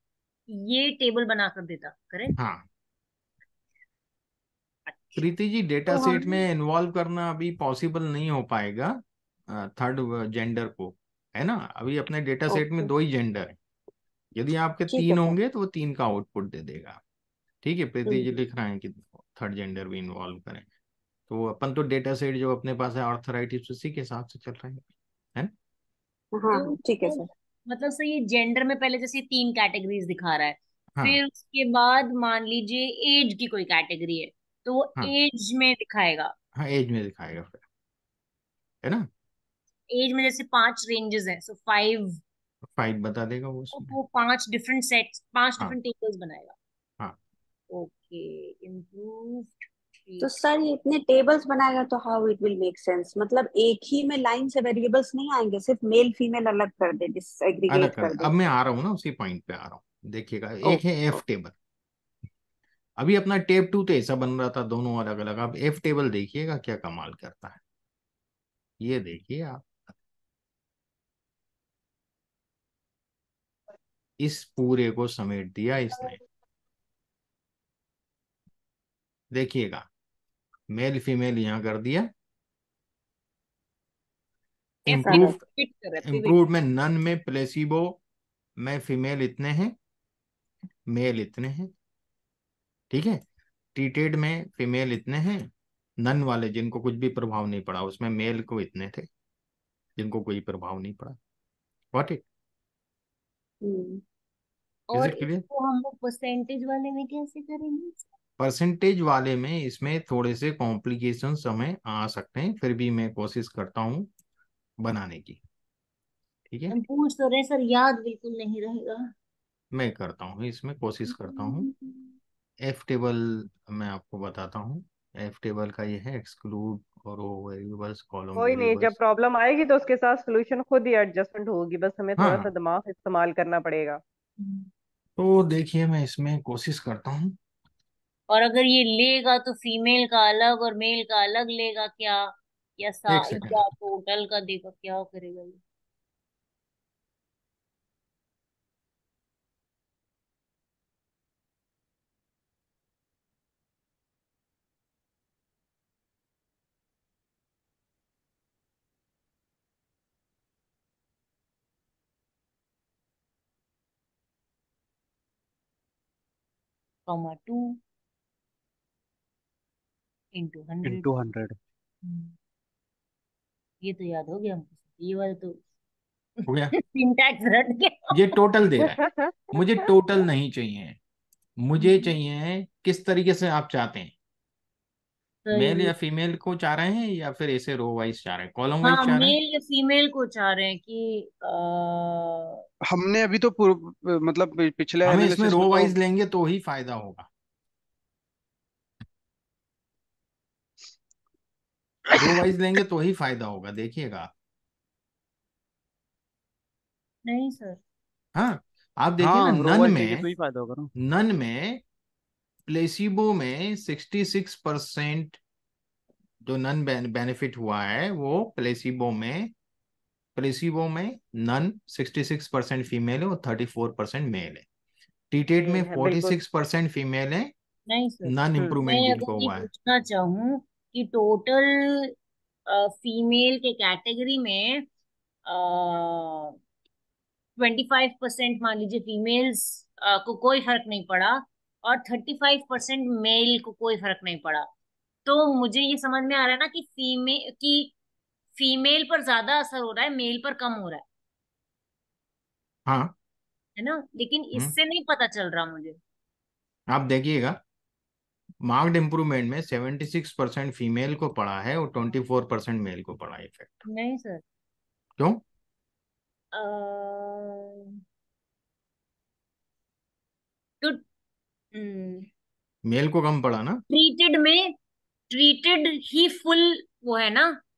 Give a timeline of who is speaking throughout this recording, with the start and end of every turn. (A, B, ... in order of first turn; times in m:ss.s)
0:00.5-0:02.4 A
0:02.4-0:02.7 B
0:04.9-0:05.3 A
0:05.2-0:13.6 B
0:05.9-0:06.4 A
0:12.6-0:12.8 A
0:14.4-0:17.0 B
0:14.9-0:15.4 A
0:17.6-0:20.7 B
0:18.1-0:18.4 C
0:21.3-0:24.8 B
0:26.4-0:27.3 C
0:26.5-0:36.3 A
0:36.6-0:37.6 B
0:39.9-0:42.2 A
0:42.8-0:44.0 B
0:43.7-0:46.6 A
0:47.7-0:50.3 A
0:50.2-0:58.3 C
0:57.7-1:01.6 B
1:03.0-1:07.6 B
1:08.8-1:09.8 B
1:14.2-1:16.2 B
1:19.3-1:19.9 B
1:20.7-1:22.1 B
1:24.9-1:25.4 B
1:24.9-1:26.4 A
1:25.0-1:25.3 C
1:26.0-1:28.0 B
1:28.6-1:29.8 B
1:30.9-1:31.7 B
1:32.9-1:33.2 B
1:33.7-1:39.1 B
1:40.0-1:41.2 B
1:41.9-1:42.2 B
1:43.6-1:44.0 C
1:44.9-1:48.0 A
1:44.9-1:45.4 B
1:48.4-1:54.1 B
1:54.8-1:55.4 B
1:56.5-1:56.8 B
1:56.7-1:59.1 A
1:59.7-2:01.7 B
2:01.1-2:02.0 A
2:02.6-2:09.0 B
2:08.4-2:14.0 D
2:12.2-2:12.5 B
2:14.4-2:14.7 A
2:15.2-2:17.4 B
2:18.3-2:25.6 A
2:23.1-2:23.6 B
2:47.1-2:47.8 A
2:50.3-2:51.1 A
2:50.8-2:51.6 E
2:52.0-2:52.3 A
2:53.8-2:55.6 A
2:56.4-2:58.4 A
2:56.5-2:56.8 B
2:58.1-2:59.0 B
2:59.0-2:59.6 D
2:59.5-3:01.0 B
3:01.6-3:04.1 B
3:01.8-3:02.1 A
3:05.4-3:05.9 A
3:05.5-3:09.4 B
3:08.8-3:12.6 A
3:12.9-3:16.0 E
3:15.0-3:17.3 B
3:22.1-3:24.3 B
3:27.2-3:27.8 A
3:28.4-3:30.2 B
3:29.2-3:30.9 E
3:31.0-3:31.8 B
3:32.7-3:35.4 B
3:36.4-3:39.5 B
3:40.4-3:44.6 B
3:45.3-3:47.5 B
3:45.6-3:46.4 D
3:47.9-3:52.1 A
3:48.3-3:49.7 B
3:52.7-3:54.8 A
3:55.5-3:56.6 A
3:57.6-4:04.7 A
4:05.3-4:07.9 A
4:08.6-4:11.0 A
4:12.9-4:13.1 B
4:13.8-4:16.0 A
4:16.9-4:17.6 B
4:18.6-4:23.8 B
4:23.8-4:24.4 A
4:26.5-4:28.0 A
4:31.7-4:32.3 A
4:32.9-4:33.8 B
4:33.9-4:34.8 A
4:35.3-4:37.6 A